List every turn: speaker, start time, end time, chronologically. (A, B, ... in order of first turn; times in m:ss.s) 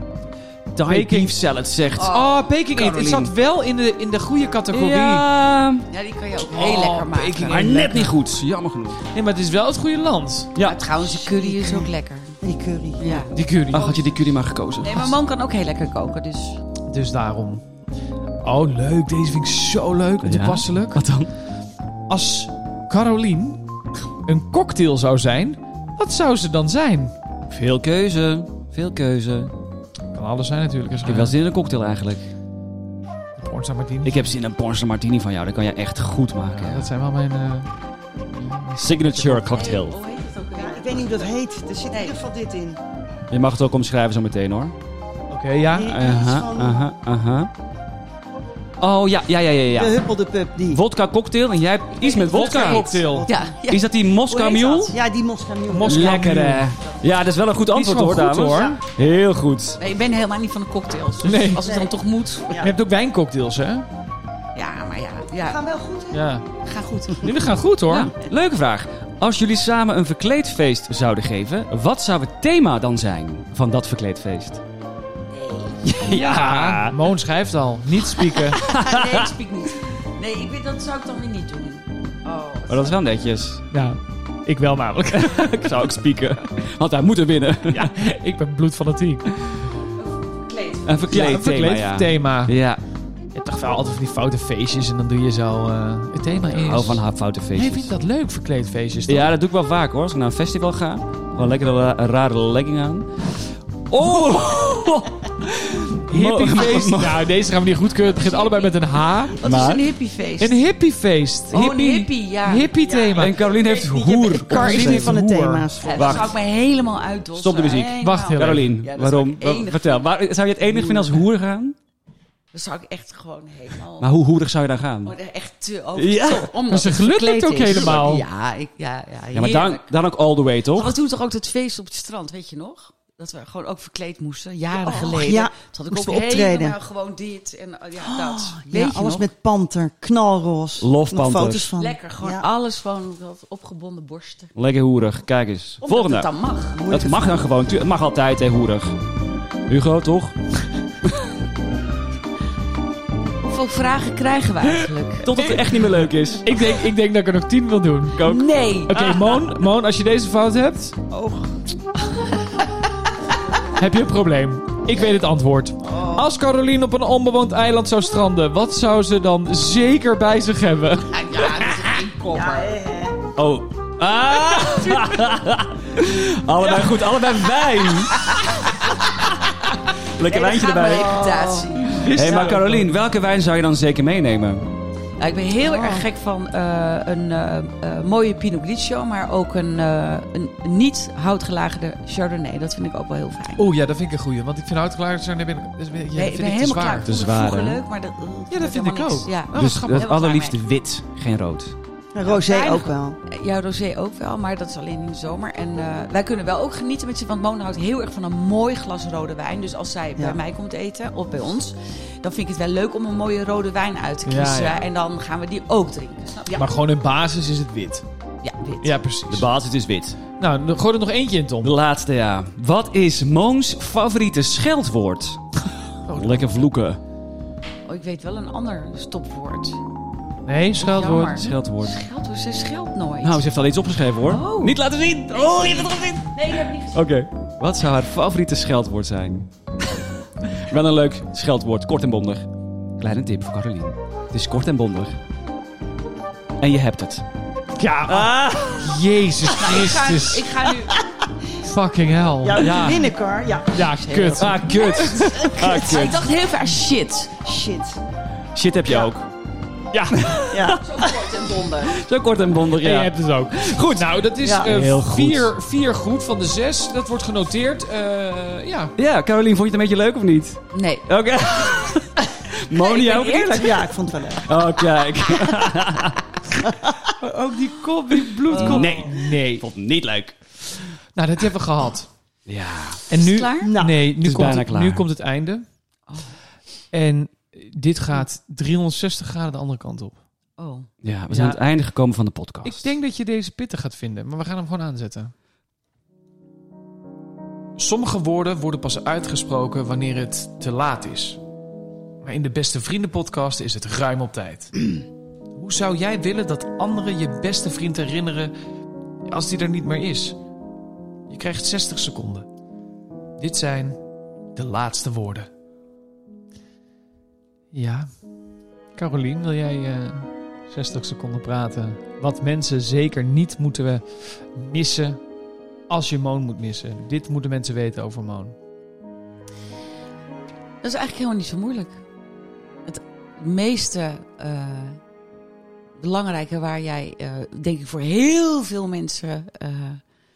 0:00.7-0:02.2 A
0:00.9-0:01.4 B
0:02.0-0:02.5 C
0:02.0-0:05.3 B
0:02.7-0:03.3 A
0:04.7-0:05.9 A
0:05.9-0:07.6 C
0:06.5-0:08.2 B
0:07.4-0:09.0 A
0:09.1-0:10.5 B
0:10.6-0:10.8 A
0:10.6-0:12.4 C
0:11.0-0:13.3 D
0:13.0-0:14.0 C
0:13.3-0:14.0 B
0:13.7-0:15.1 A
0:14.8-0:16.6 C
0:16.9-0:17.6 B
0:18.4-0:21.0 B
0:20.2-0:21.3 A
0:22.1-0:23.6 B
0:24.2-0:27.1 B
0:27.5-0:29.5 A
0:30.1-0:31.4 B
0:31.0-0:32.3 A
0:33.4-0:34.3 B
0:34.0-0:36.9 A
0:36.6-0:37.7 B
0:38.3-0:39.8 B
0:38.8-0:40.0 A
0:39.5-0:41.3 C
0:40.6-0:42.8 D
0:41.9-0:42.2 C
0:43.3-0:44.8 A
0:45.3-0:45.9 B
0:45.7-0:46.8 D
0:45.9-0:47.5 A
0:48.8-0:50.0 A
0:49.7-0:50.8 D
0:50.7-0:53.0 A
0:52.0-0:55.0 C
0:52.1-0:53.3 B
0:52.9-0:53.5 D
0:53.7-0:55.0 A
0:54.9-0:56.2 D
0:55.7-0:56.7 B
0:55.8-0:59.8 A
0:57.7-0:58.8 B
0:59.8-1:02.7 C
1:01.2-1:01.7 B
1:01.6-1:01.9 D
1:02.6-1:03.9 B
1:04.6-1:05.6 C
1:05.4-1:06.3 D
1:06.1-1:06.5 B
1:06.6-1:07.3 C
1:07.1-1:08.1 B
1:07.9-1:14.6 A
1:15.3-1:16.0 C
1:15.9-1:17.0 A
1:16.1-1:18.6 B
1:18.4-1:23.0 C
1:18.6-1:19.3 A
1:22.7-1:23.6 A
1:23.7-1:25.8 B
1:25.2-1:27.9 A
1:27.7-1:29.3 B
1:30.0-1:31.2 C
1:30.8-1:32.8 A
1:31.1-1:32.6 B
1:33.4-1:37.0 B
1:36.5-1:37.9 A
1:37.5-1:39.3 B
1:39.1-1:43.3 A
1:43.9-1:47.3 A
1:44.0-1:44.5 B
1:45.5-1:49.4 B
1:48.1-1:48.8 C
1:49.4-1:50.6 C
1:49.4-1:49.8 A
1:50.4-1:53.5 B
1:51.5-1:52.9 C
1:52.9-1:56.3 D
1:53.1-1:55.2 A
1:54.4-1:55.7 B
1:55.8-2:00.1 C
1:55.9-1:56.4 A
1:57.4-2:01.8 A
1:58.0-1:58.7 B
2:00.7-2:01.2 C
2:02.5-2:04.1 C
2:04.0-2:05.2 A
2:05.0-2:09.9 C
2:06.0-2:06.5 A
2:06.7-2:08.2 B
2:09.3-2:11.0 A
2:10.7-2:19.3 C
2:14.7-2:16.8 D
2:18.0-2:22.5 D
2:20.8-2:21.7 A
2:21.8-2:24.5 C
2:24.6-2:26.3 A
2:25.8-2:26.8 C
2:26.7-2:27.4 D
2:26.9-2:29.0 A
2:29.7-2:30.4 A
2:33.4-2:35.6 C
2:35.2-2:36.5 A
2:35.4-2:38.3 B
2:38.2-2:39.6 A
2:38.2-2:38.9 C
2:38.9-2:41.0 B
2:41.1-2:41.5 A
2:43.8-2:51.9 B
2:45.8-2:46.2 D
2:51.0-2:52.8 C
2:52.3-2:53.2 D
2:53.4-2:58.5 A
2:54.6-2:55.1 B
2:56.6-2:57.2 B
3:00.1-3:01.2 A
3:00.2-3:02.6 C
3:00.8-3:01.9 D
3:01.9-3:02.9 B
3:01.9-3:04.7 A
3:05.2-3:13.6 C
3:05.6-3:06.1 D
3:13.6-3:17.1 B
3:16.1-3:20.6 C
3:17.0-3:17.8 A
3:18.5-3:20.1 B
3:19.5-3:21.8 A
3:22.1-3:23.2 D
3:22.2-3:36.7 C
3:34.3-3:34.9 B
3:36.5-3:38.0 B
3:38.4-3:39.0 C
3:38.8-3:39.5 B
3:39.3-3:40.2 A
3:40.4-3:41.8 B
3:41.6-3:45.5 A
3:46.0-3:46.7 B
3:46.1-3:47.0 A
3:47.9-3:49.8 C
3:50.5-3:51.4 B
3:50.8-3:53.5 C
3:51.3-3:52.0 A
3:53.2-3:59.5 A
3:54.2-3:54.8 C
3:55.5-3:57.1 C
4:00.4-4:05.2 A
4:06.6-4:07.2 A
4:07.8-4:10.5 B
4:08.1-4:09.0 A
4:09.5-4:11.0 C
4:11.6-4:13.1 B
4:12.4-4:14.5 D
4:13.7-4:15.6 B
4:14.3-4:16.3 A
4:14.5-4:14.8 C
4:15.2-4:16.0 D
4:15.7-4:17.4 C
4:17.4-4:18.0 D
4:18.5-4:19.3 A
4:19.9-4:20.8 B
4:20.1-4:21.1 A
4:20.5-4:20.8 D
4:20.8-4:22.0 C
4:21.8-4:24.0 A
4:22.7-4:29.0 B
4:24.4-4:24.7 D
4:24.6-4:25.5 A
4:29.0-4:36.3 A
4:30.7-4:31.1 C
4:32.7-4:33.8 C
4:33.4-4:34.6 D
4:36.6-4:37.1 D
4:37.2-4:39.6 B
4:38.5-4:39.0 C
4:38.5-4:40.4 A
4:41.1-4:42.1 B
4:42.5-4:43.0 A
4:43.1-4:45.6 B
4:43.1-4:43.8 C
4:43.6-4:44.1 D
4:44.2-4:45.1 A
4:46.1-4:46.4 C
4:46.9-4:50.2 B
4:50.6-4:50.9 C
4:51.0-4:52.9 A
4:51.3-4:51.6 B
4:52.6-4:55.3 B
4:57.8-5:01.4 B
5:02.2-5:04.9 B
5:05.6-5:08.5 B
5:09.3-5:10.4 B
5:11.3-5:12.5 B
5:13.4-5:14.0 B
5:14.6-5:15.5 B
5:17.7-5:18.1 B
5:19.0-5:25.2 B
5:25.9-5:28.6 B
5:30.8-5:32.0 C
5:32.9-5:35.0 C
5:36.0-5:40.0 C